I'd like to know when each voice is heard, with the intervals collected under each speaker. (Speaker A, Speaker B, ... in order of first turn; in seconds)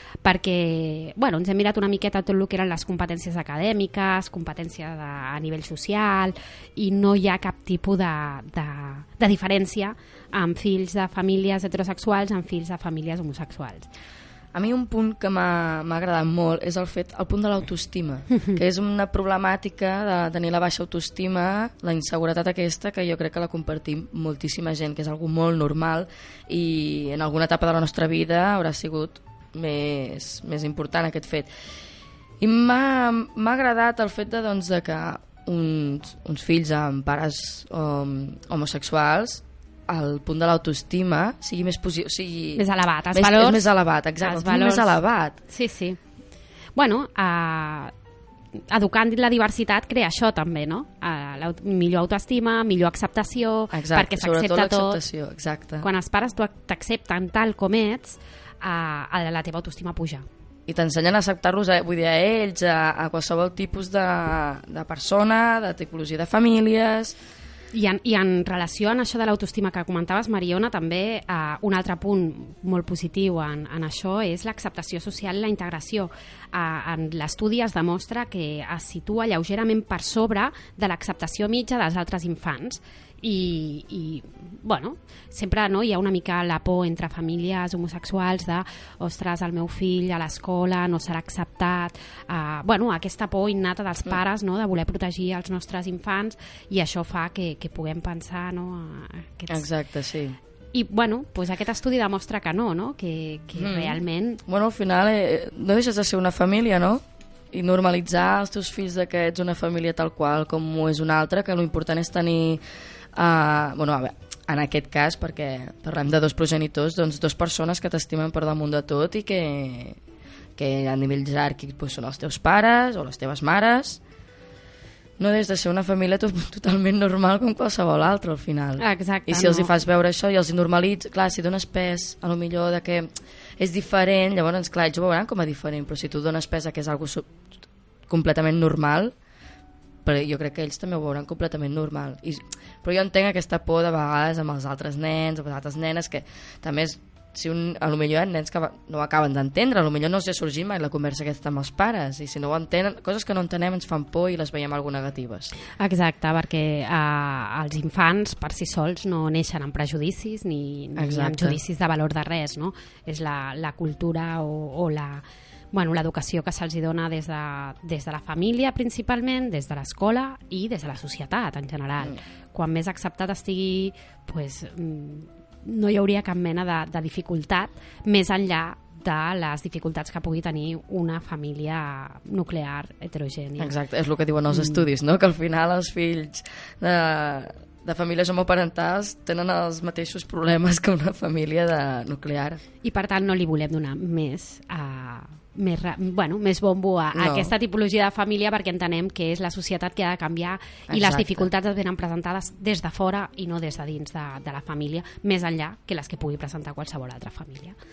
Speaker A: 0.2-13.9, 42.6-43.7, 44.2-46.0, 46.8-47.9, 48.6-55.0, 55.8-60.2, 67.7-99.7, 100.7-104.4, 128.8-129.7, 155.8-183.8, 184.5-184.8, 192.8-207.8
Speaker B: 14.5-31.5, 32.4-45.4, 53.7-55.9, 60.7-67.2, 99.5-100.4, 103.6-112.6, 113.2-120.0, 120.6-124.0, 125.2-137.3, 138.1-139.2, 140.1-155.5, 161.0-161.6, 183.6-192.6, 197.1-197.5, 200.9-201.5